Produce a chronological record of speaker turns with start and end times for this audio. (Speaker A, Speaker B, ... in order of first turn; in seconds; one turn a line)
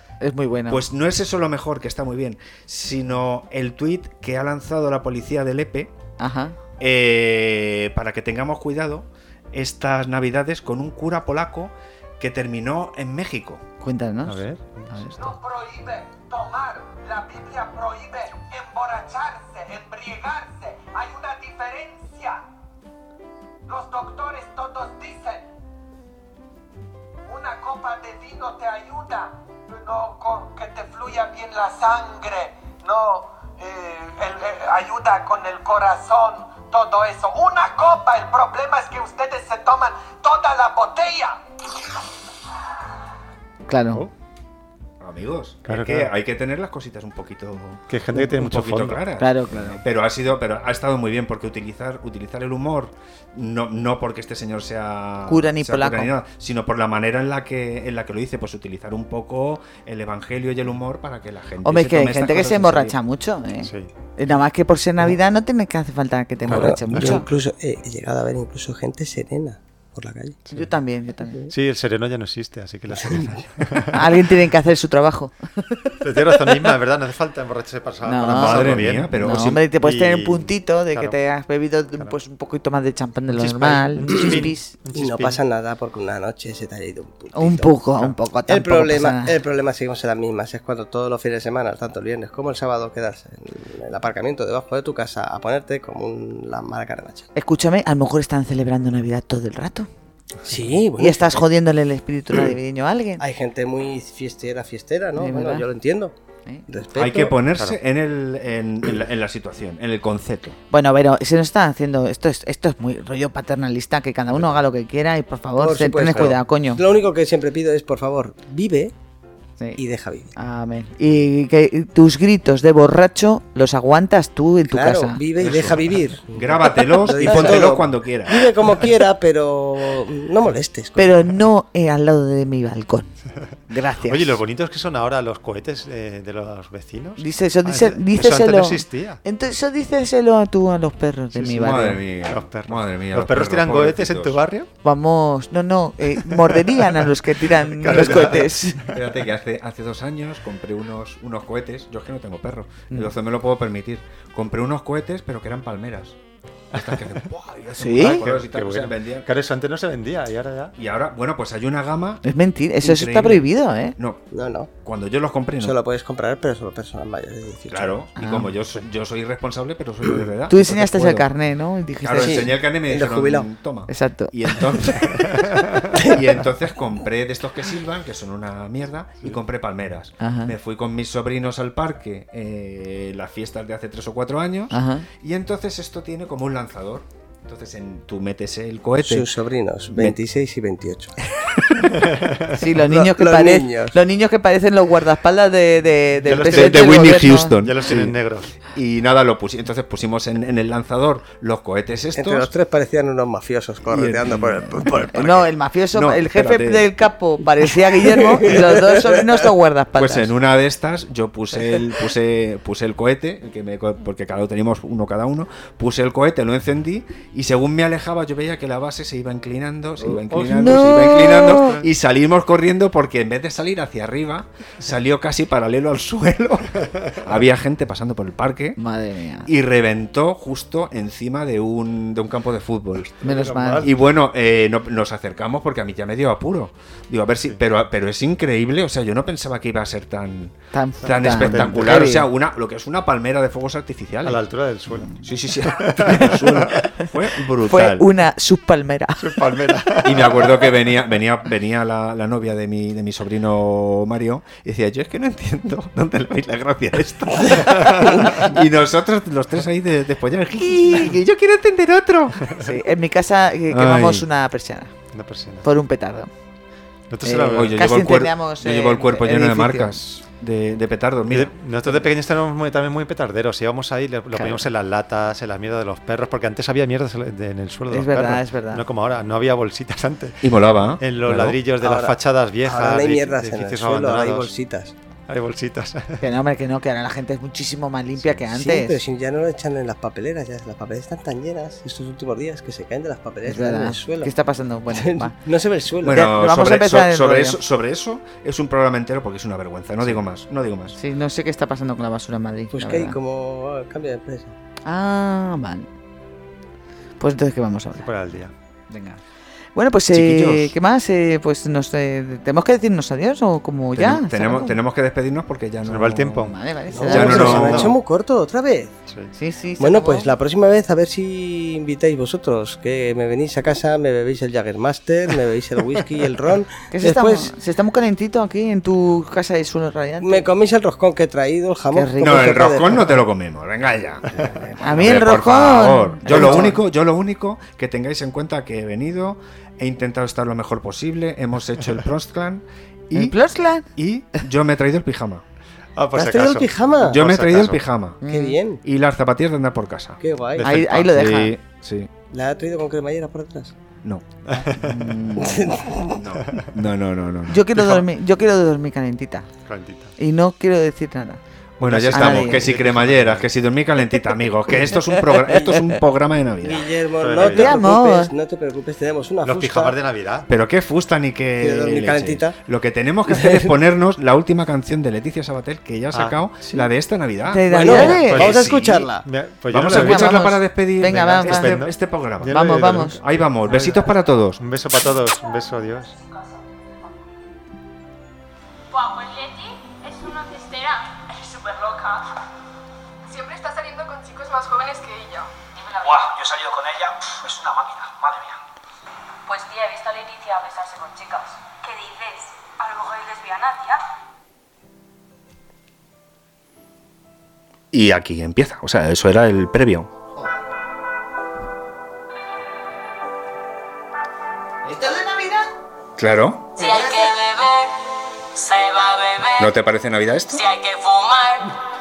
Speaker A: 0.2-0.8
Speaker B: 0.7-5.9
Speaker A: 6.2-6.6
Speaker B: 6.8-13.6
Speaker A: 13.8-15.3
Speaker C: 14.2-15.1
Speaker D: 15.2-22.4
Speaker D: 23.7-25.5
Speaker D: 27.3-41.4
Speaker A: 43.7-44.1
Speaker B: 45.0-63.0
Speaker C: 45.7-46.1
Speaker C: 47.9-49.0
Speaker A: 49.2-49.8
Speaker A: 55.3-56.1
Speaker A: 61.6-67.3
Speaker C: 63.6-63.9
Speaker C: 66.5-67.3
Speaker E: 66.5-70.4
Speaker A: 70.5-71.4
Speaker E: 71.3-71.5
Speaker C: 71.5-74.2
Speaker E: 73.0-73.3
Speaker A: 73.9-76.0
Speaker C: 76.0-81.2
Speaker A: 78.0-84.7
Speaker B: 78.3-79.6
Speaker C: 83.3-85.4
Speaker E: 84.0-84.4
Speaker E: 84.9-87.7
Speaker A: 87.3-89.3
Speaker E: 88.5-97.3
Speaker A: 97.3-99.9
Speaker C: 100.5-100.7
Speaker E: 100.5-101.5
Speaker A: 101.0-103.2
Speaker E: 103.2-106.1
Speaker A: 105.2-105.7
Speaker E: 106.7-107.4
Speaker B: 107.0-110.6
Speaker C: 107.5-107.8
Speaker A: 110.7-116.8
Speaker E: 115.6-118.9
Speaker C: 116.1-116.4
Speaker E: 119.8-120.3
Speaker A: 120.4-125.2
Speaker E: 124.7-131.1
Speaker B: 125.4-128.5
Speaker A: 131.0-133.1
Speaker A: 133.7-134.4
Speaker C: 134.0-139.2
Speaker A: 137.2-142.0
Speaker B: 141.3-144.4
Speaker C: 142.2-144.7
Speaker A: 144.8-148.9
Speaker C: 146.2-148.6
Speaker B: 147.9-156.2
Speaker B: 156.7-159.3
Speaker C: 156.7-157.2
Speaker A: 157.8-158.2
Speaker C: 157.9-160.8
Speaker B: 160.8-162.2
Speaker A: 162.2-163.9
Speaker B: 162.8-164.2
Speaker E: 164.3-164.7
Speaker B: 164.8-165.8
Speaker E: 165.6-168.1
Speaker B: 167.7-171.3
Speaker A: 168.2-168.5
Speaker A: 170.5-172.5
Speaker B: 172.0-189.3
Speaker E: 172.2-173.5
Speaker A: 173.9-174.8
Speaker C: 175.2-175.9
Speaker A: 180.2-180.6
Speaker A: 184.7-185.1
Speaker E: 189.0-191.2
Speaker B: 189.9-190.2
Speaker B: 191.4-192.1
Speaker C: 192.1-192.4
Speaker A: 192.5-197.5
Speaker E: 192.8-194.0
Speaker C: 196.2-198.6
Speaker B: 196.3-198.2
Speaker B: 198.7-202.5
Speaker E: 202.1-205.5
Speaker B: 203.9-204.9
Speaker A: 205.1-210.3
Speaker B: 205.9-206.9
Speaker E: 207.6-209.4
Speaker B: 210.0-228.8
Speaker C: 220.0-221.6
Speaker A: 220.3-221.8
Speaker A: 228.8-229.5
Speaker B: 229.5-233.1
Speaker C: 233.0-234.2
Speaker A: 233.2-233.9
Speaker B: 233.8-244.5
Speaker A: 240.7-242.3
Speaker C: 241.1-241.9
Speaker C: 244.2-245.1
Speaker A: 245.0-245.3
Speaker B: 245.2-248.1
Speaker C: 245.6-246.9
Speaker A: 247.6-249.5
Speaker C: 249.2-250.8
Speaker B: 250.0-262.6
Speaker A: 257.6-258.2
Speaker A: 260.8-261.1
Speaker A: 262.6-264.9
Speaker B: 263.7-264.3
Speaker C: 265.1-265.7
Speaker A: 265.6-266.3
Speaker C: 267.1-268.1
Speaker A: 267.2-270.0
Speaker B: 267.4-271.5
Speaker C: 271.3-284.5
Speaker A: 274.3-274.7
Speaker A: 277.9-278.9
Speaker B: 280.4-281.6
Speaker E: 281.8-284.9
Speaker C: 285.3-286.3
Speaker A: 286.2-289.0
Speaker E: 288.5-294.3
Speaker A: 293.5-295.4
Speaker E: 294.9-296.3
Speaker B: 296.0-301.0
Speaker A: 296.1-297.6
Speaker A: 300.9-303.2
Speaker E: 302.7-304.6
Speaker A: 304.9-305.9
Speaker A: 307.2-308.1
Speaker C: 307.9-308.5
Speaker A: 308.9-309.2
Speaker A: 309.8-314.8
Speaker B: 310.1-310.8
Speaker B: 314.0-316.6
Speaker C: 315.8-318.0
Speaker A: 316.4-317.9
Speaker E: 316.9-319.0
Speaker B: 317.1-317.9
Speaker C: 319.1-319.3
Speaker A: 319.4-320.3
Speaker E: 319.8-327.5
Speaker A: 326.9-330.5
Speaker E: 330.2-333.2
Speaker A: 331.9-332.7
Speaker B: 332.2-343.4
Speaker E: 334.4-335.0
Speaker A: 334.8-336.8
Speaker E: 336.3-336.7
Speaker A: 343.1-343.9
Speaker B: 343.9-345.4
Speaker C: 346.0-347.9
Speaker E: 346.1-347.2
Speaker B: 347.1-348.2
Speaker A: 348.2-348.6
Speaker E: 348.3-348.8
Speaker B: 348.8-350.2
Speaker E: 350.2-350.8
Speaker C: 350.6-351.1
Speaker A: 350.6-351.6
Speaker B: 350.8-352.1
Speaker E: 352.3-353.7
Speaker C: 354.4-355.2
Speaker A: 354.8-355.8
Speaker E: 355.4-356.2
Speaker B: 356.1-358.0
Speaker C: 356.3-356.7
Speaker A: 357.5-359.5
Speaker C: 359.7-360.1
Speaker A: 360.2-361.4
Speaker B: 361.8-366.9
Speaker C: 361.8-363.5
Speaker A: 362.1-362.7
Speaker E: 366.6-370.0
Speaker C: 367.2-367.8
Speaker A: 367.5-368.3
Speaker C: 369.4-370.5
Speaker B: 370.5-379.1
Speaker E: 371.6-372.6
Speaker E: 373.3-373.8
Speaker C: 376.1-376.8
Speaker A: 377.5-378.4
Speaker E: 377.7-379.3
Speaker C: 377.9-386.2
Speaker B: 379.7-382.6
Speaker A: 379.8-381.8
Speaker A: 382.5-383.2
Speaker B: 383.2-384.6
Speaker F: 386.1-386.6
Speaker F: 388.9-392.4
Speaker F: 393.3-396.3
Speaker G: 396.0-398.6
Speaker F: 399.5-404.0
Speaker B: 407.9-410.1
Speaker A: 414.9-415.7
Speaker B: 416.2-416.8
Speaker F: 416.8-417.9
Speaker F: 418.5-419.7
Speaker B: 419.6-420.6
Speaker F: 420.5-421.8